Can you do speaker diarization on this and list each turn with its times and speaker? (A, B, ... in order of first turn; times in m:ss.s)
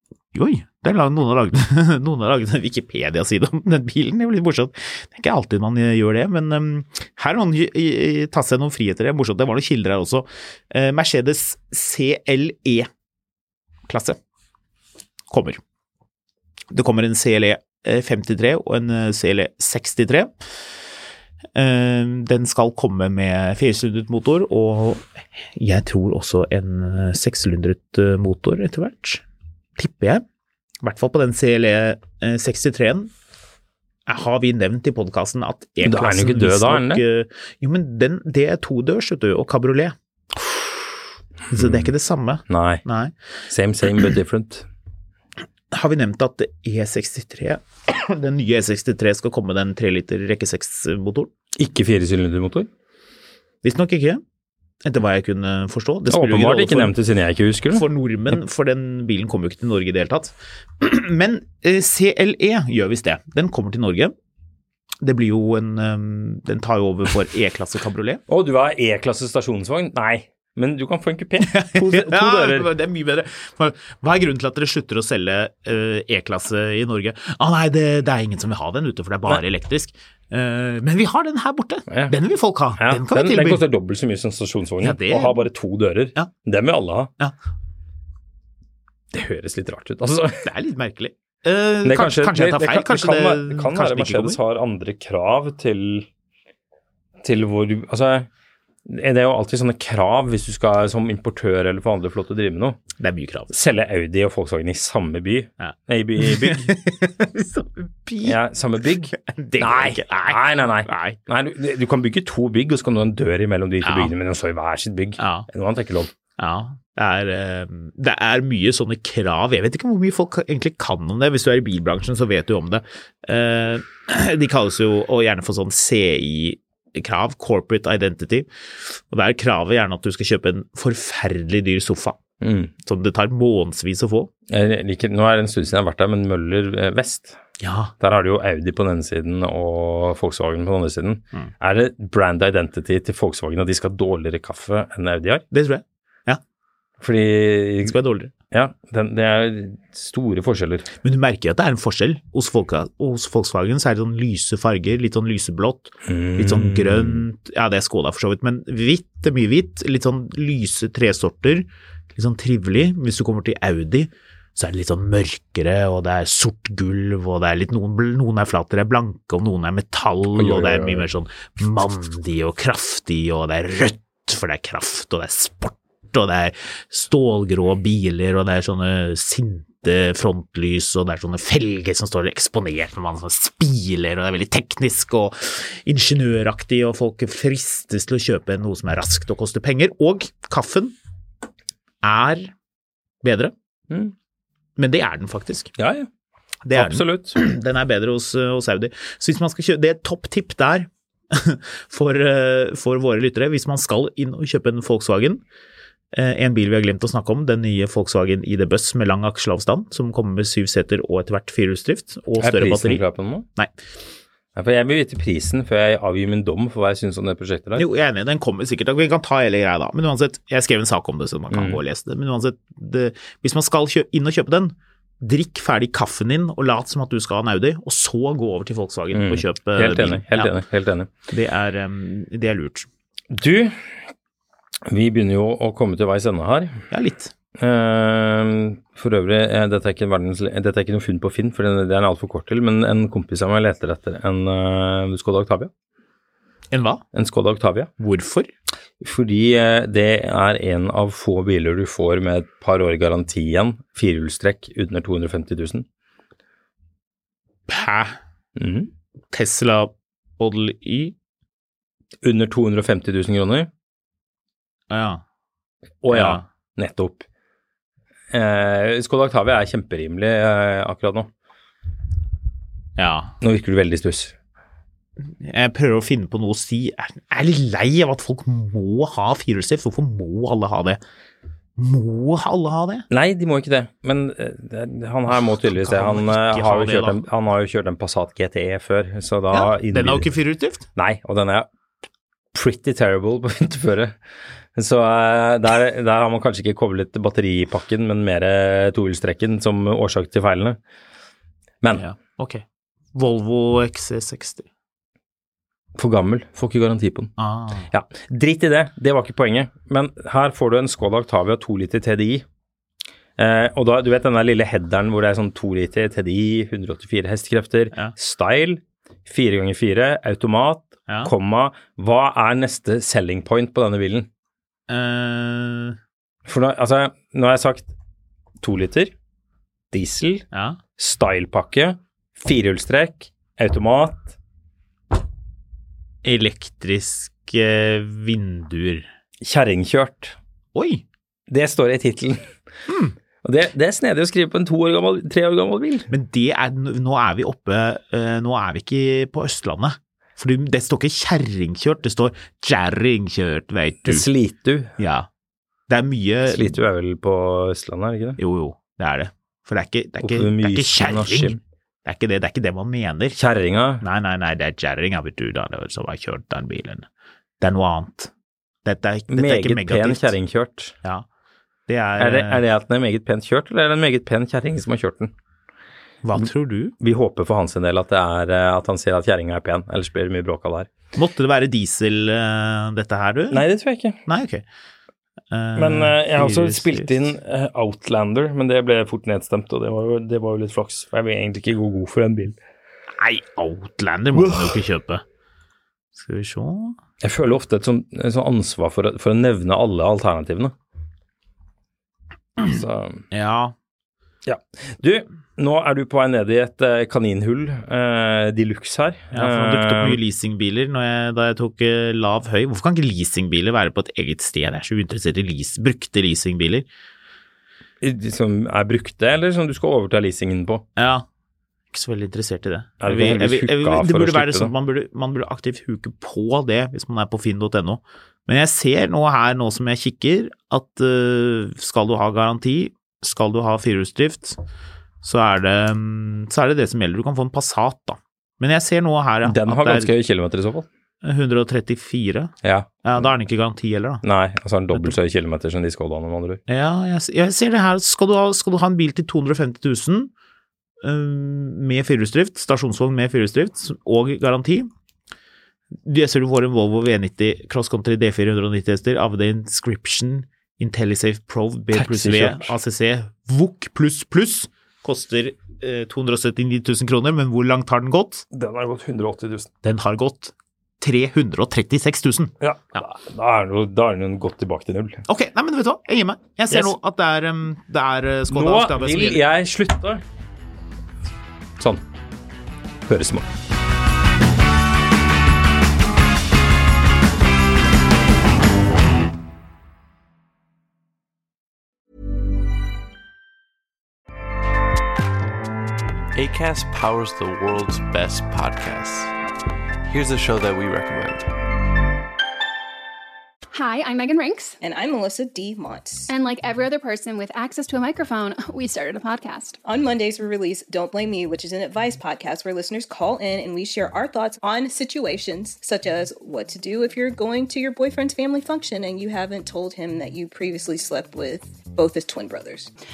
0:00.3-0:12.9 A
0:13.9-0:14.2 A
0:15.3-0:15.6 A
0:16.7-0:20.3 A
0:21.6-0:29.2 A
0:29.8-0:30.2 A
0:30.8-0:33.1 A
0:34.1-0:40.0 A
0:35.8-0:37.0 B
0:41.5-0:43.1 A
0:41.6-0:41.9 B
0:42.5-0:42.8 B
0:43.5-0:44.7 B
0:45.7-0:51.3 A
0:51.6-0:52.7 B
0:53.6-0:54.2 A
0:54.8-0:56.9 A
0:56.1-0:57.8 B
0:57.7-1:04.2 A
1:05.0-1:08.2 A
1:08.3-1:12.7 B
1:11.4-1:23.6 A
1:21.9-1:22.2 B
1:22.8-1:27.1 B
1:24.8-1:25.4 A
1:29.1-1:30.5 B
1:30.4-1:34.4 A
1:31.8-1:36.1 B
1:37.2-1:38.3 B
1:38.9-1:42.8 B
1:43.0-1:43.5 A
1:43.5-1:46.7 B
1:45.6-1:48.4 A
1:48.2-1:56.1 B
1:49.1-1:51.2 A
1:53.8-1:54.1 A
1:55.2-1:55.5 A
1:56.4-2:12.2 A
2:12.4-2:12.7 B
2:12.8-2:14.3 A
2:14.5-2:17.4 B
2:17.6-2:17.9 A
2:18.0-2:25.4 B
2:25.5-2:26.4 A
2:27.0-2:27.9 B
2:27.8-2:28.3 A
2:28.5-2:30.9 B
2:31.0-3:11.0 A
2:36.1-2:37.2 B
2:50.4-2:51.1 B
3:12.0-3:12.5 A
3:13.2-3:13.5 A
3:14.8-3:15.7 A
3:15.8-3:16.1 B
3:16.7-3:25.4 A
3:16.8-3:17.4 B
3:26.1-3:33.0 A
3:32.4-3:33.5 B
3:34.6-3:37.8 B
3:37.8-3:50.6 A
3:41.5-3:41.8 B
3:49.1-3:51.1 B
3:51.3-3:52.9 A
3:53.3-3:53.8 B
3:54.9-3:56.8 B
3:56.9-3:57.3 A
3:57.6-4:05.7 B
4:06.7-4:07.0 A
4:07.1-4:07.9 B
4:08.0-4:08.5 A
4:09.0-4:15.9 B
4:17.7-4:18.2 A
4:18.6-4:18.9 B
4:19.3-4:21.2 A
4:22.2-4:23.7 B
4:24.9-4:25.2 A
4:26.0-4:27.2 B
4:26.1-4:26.4 A
4:28.3-4:31.3 B
4:33.0-4:33.3 A
4:33.4-4:34.4 B
4:35.4-4:41.0 A
4:41.8-4:43.1 A
4:43.1-4:50.3 B
4:45.5-4:47.2 A
4:49.5-4:50.9 A
4:51.0-4:51.7 B
4:52.5-4:54.2 B
4:54.8-5:00.8 B
5:02.0-5:02.6 A
5:03.2-5:04.7 A
5:06.0-5:07.3 B
5:07.4-5:07.9 A
5:07.9-5:12.4 B
5:13.4-5:24.3 B
5:24.9-5:26.0 A
5:26.5-5:27.9 B
5:28.6-5:29.1 B
5:29.9-5:30.4 B
5:30.5-5:30.8 A
5:31.0-5:34.4 B
5:36.2-5:39.1 A
5:39.4-5:40.4 B
5:40.8-5:41.0 A
5:41.5-5:42.5 B
5:42.9-5:43.2 A
5:43.4-5:46.1 B
5:46.1-5:54.3 A
5:54.0-5:54.9 B
5:55.0-5:55.3 A
5:55.9-5:56.8 A
5:56.5-5:58.4 B
5:58.4-6:03.4 A
6:00.2-6:01.6 B
6:03.4-6:04.0 B
6:04.0-6:07.1 A
6:07.6-6:08.3 A
6:08.8-6:10.3 A
6:09.3-6:10.9 B
6:11.9-6:12.6 A
6:12.2-6:15.3 B
6:16.2-6:17.0 A
6:17.0-6:20.9 B
6:21.2-6:23.6 A
6:23.5-6:24.2 B
6:24.3-6:24.6 A
6:25.5-6:27.1 A
6:25.8-6:32.6 B
6:33.2-6:35.2 A
6:34.4-6:34.8 B
6:36.2-6:37.0 A
6:37.2-6:40.8 B
6:42.6-6:43.2 B
6:43.3-6:43.7 A
6:44.5-6:50.2 B
6:49.3-6:56.9 A
6:58.0-7:00.8 B
7:01.0-7:01.3 A
7:01.9-7:14.6 A
7:03.0-7:04.7 B
7:15.2-7:20.1 A
7:19.4-7:20.9 B
7:21.2-7:22.5 A
7:22.6-7:22.9 B
7:23.0-7:24.2 A
7:24.2-7:26.6 B
7:26.7-7:30.3 A
7:31.0-7:34.9 A
7:36.0-7:48.4 A
7:41.9-7:42.7 B
7:48.5-7:49.7 B
7:49.8-7:53.0 A
7:52.6-7:55.2 B
7:55.3-7:59.4 A
7:58.5-8:00.2 B
8:03.1-8:03.5 B
8:16.3-8:19.3 C
8:20.1-8:21.5 C
8:23.7-8:24.8 D
8:24.8-8:26.3 E
8:26.3-8:29.8 D
8:29.8-8:42.9 E